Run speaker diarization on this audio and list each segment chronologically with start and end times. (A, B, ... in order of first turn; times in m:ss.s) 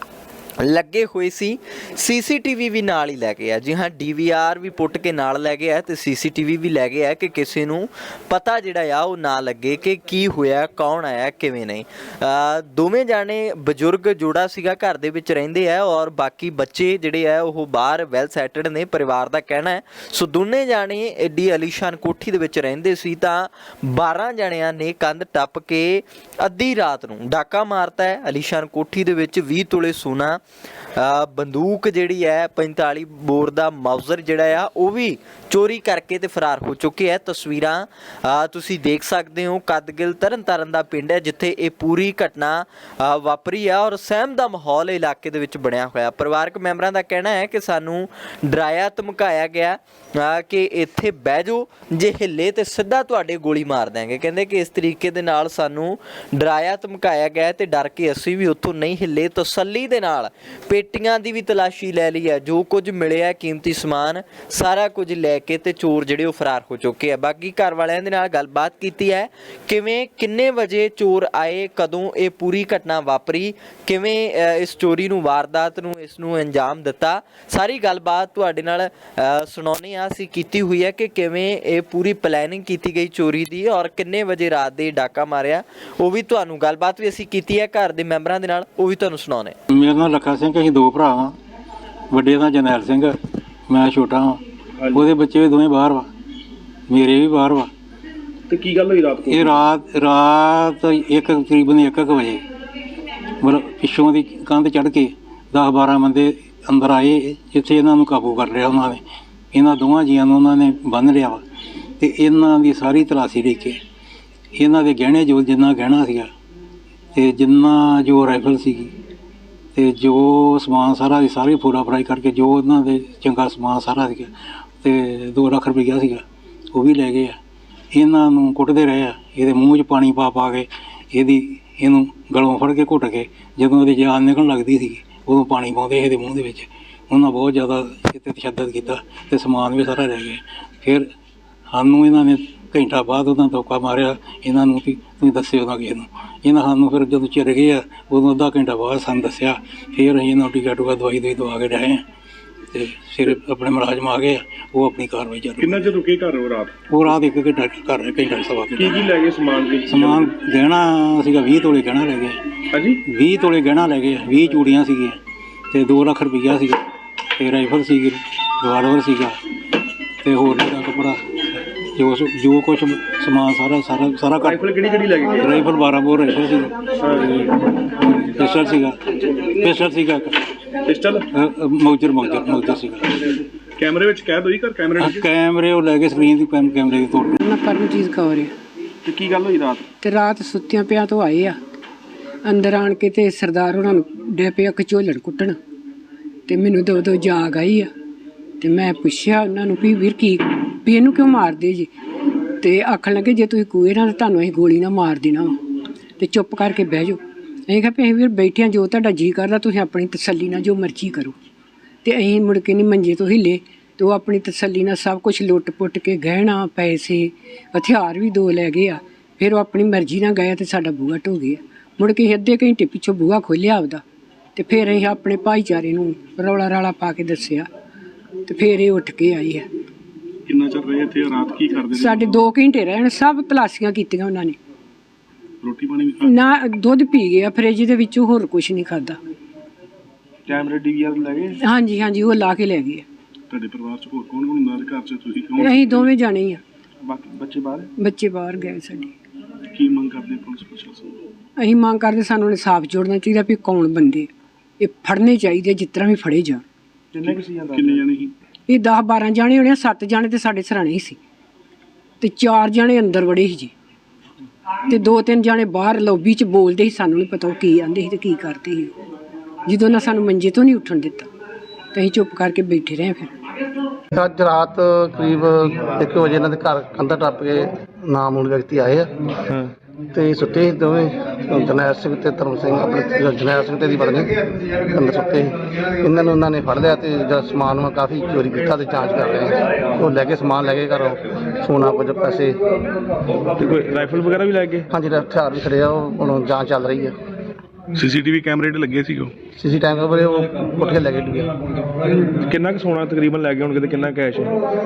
0:00.6-0:30.4 A
0:31.0-1:29.6 A
1:29.7-1:31.4 B
1:32.1-1:33.2 B
1:33.7-1:36.1 B
1:36.9-1:37.7 B
1:38.5-1:39.6 C
1:39.3-1:42.4 B
1:43.4-1:49.0 B
1:49.5-1:51.4 B
1:52.0-1:53.8 B
1:54.6-1:56.3 B
1:57.1-1:58.9 B
1:59.7-2:04.3 B
2:04.8-2:07.4 B
2:07.9-2:21.1 B
2:21.7-2:32.0 B
2:32.7-2:35.9 B
2:35.6-2:36.7 C
2:36.9-2:39.0 B
2:38.8-2:40.3 C
2:39.9-2:42.4 B
2:42.7-2:43.0 C
2:43.0-2:45.2 B
2:45.7-2:46.8 B
2:47.4-2:49.4 B
2:50.2-2:54.6 B
2:54.4-2:55.5 D
2:54.9-2:55.2 C
2:55.4-2:56.9 B
2:57.0-2:57.4 D
2:57.8-3:00.4 B
3:00.9-3:01.3 C
3:01.3-3:03.3 B
3:03.8-3:05.2 C
3:05.0-3:07.4 B
3:07.4-3:08.5 E
3:09.0-3:09.9 C
3:10.0-3:11.6 E
3:12.4-3:15.6 E
3:16.5-3:17.9 E
3:18.6-3:21.9 E
3:22.6-3:25.5 E
3:26.2-3:31.4 E
3:32.0-3:44.0 E
3:44.6-3:47.7 E
3:48.5-3:49.7 E
3:50.5-3:52.4 C
3:51.9-3:54.6 E
3:55.6-3:56.3 C
3:56.2-3:59.2 E
4:00.5-4:01.6 C
4:01.6-4:03.0 E
4:03.5-4:06.1 C
4:05.6-4:06.6 E
4:07.0-4:07.9 C
4:08.0-4:09.1 E
4:09.7-4:11.2 C
4:11.6-4:16.6 E
4:17.1-4:18.3 C
4:18.7-4:21.2 E
4:22.2-4:23.7 E
4:24.9-4:28.9 E
4:29.7-4:31.3 E
4:31.9-4:33.3 E
4:34.1-4:39.1 F
4:40.1-4:52.6 F
4:53.6-4:54.9 D
4:54.9-4:57.2 F
4:59.6-5:01.6 F
5:02.2-5:04.6 D